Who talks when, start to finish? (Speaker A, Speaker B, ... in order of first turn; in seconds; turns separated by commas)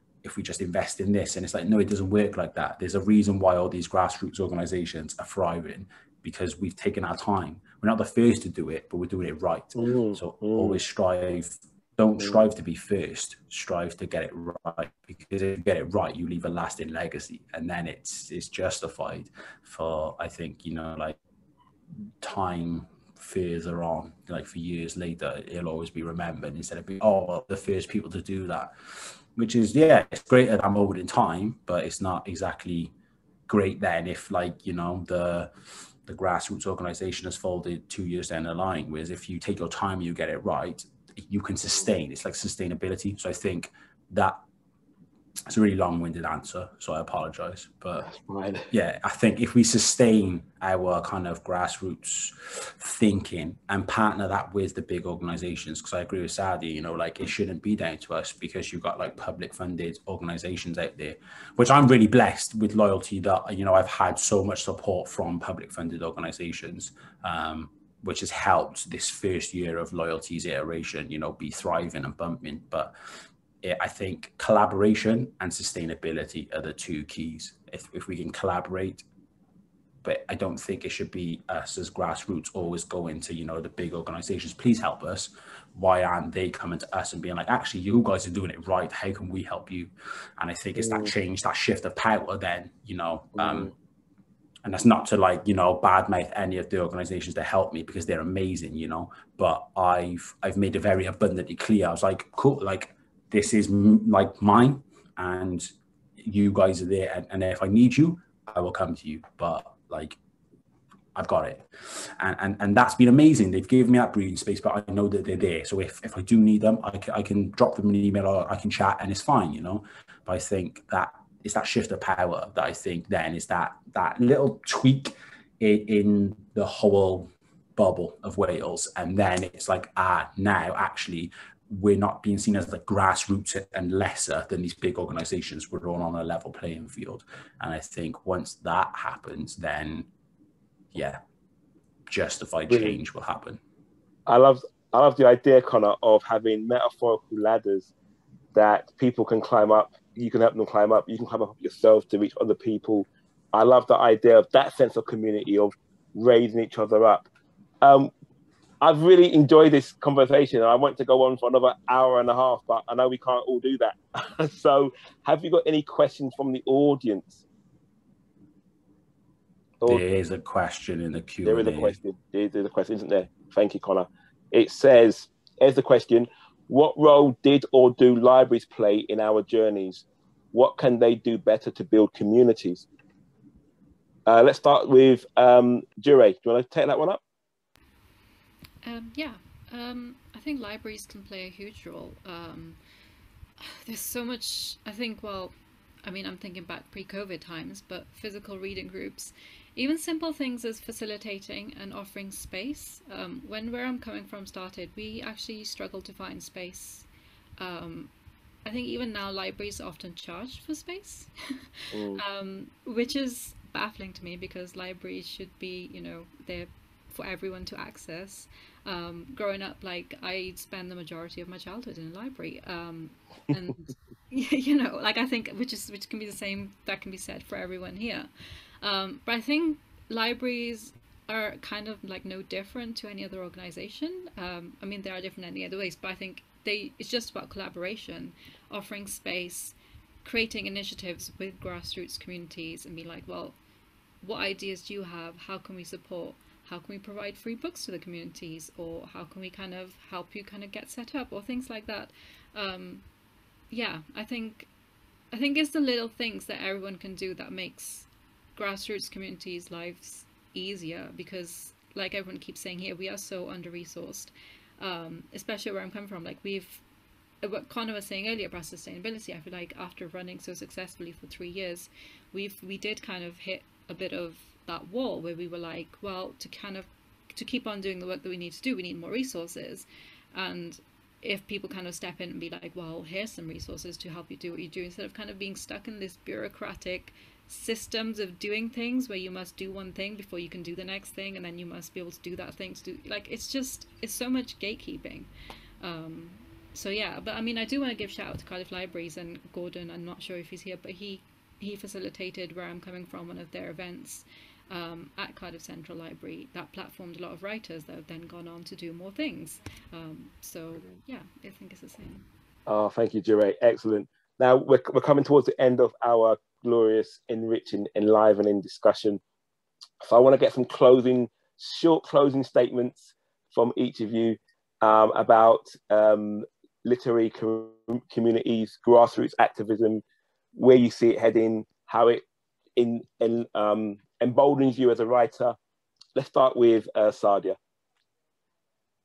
Speaker A: 0.2-21.2, Speaker B: 9.7-10.8, Speaker B: 12.2-12.4, Speaker A: 22.2-28.7, Speaker A: 29.4-32.9, Speaker A: 33.5-35.5, Speaker A: 36.0-44.4, Speaker A: 45.5-48.1, Speaker B: 48.0-48.7, Speaker A: 48.7-72.9, Speaker A: 73.6-79.0, Speaker A: 80.0-93.7, Speaker B: 90.8-91.1, Speaker B: 93.4-93.7, Speaker A: 94.6-105.7, Speaker A: 106.2-110.2, Speaker A: 111.1-140.1, Speaker A: 140.9-141.2, Speaker A: 142.1-143.6, Speaker B: 142.7-143.0, Speaker B: 144.3-147.9, Speaker B: 148.5-157.3, Speaker B: 157.8-158.1, Speaker B: 158.8-167.4, Speaker A: 169.8-172.0, Speaker B: 171.4-182.8, Speaker B: 184.2-187.2, Speaker C: 188.8-192.8, Speaker C: 193.6-207.1, Speaker C: 207.6-208.1, Speaker C: 208.6-243.6, Speaker B: 211.9-212.2, Speaker C: 244.2-253.0, Speaker C: 253.7-254.7, Speaker C: 255.3-266.8, Speaker C: 267.4-295.3, Speaker C: 295.8-312.2, Speaker B: 312.7-319.2, Speaker B: 320.0-330.0, Speaker B: 330.6-332.2, Speaker B: 332.8-335.6, Speaker B: 336.1-337.6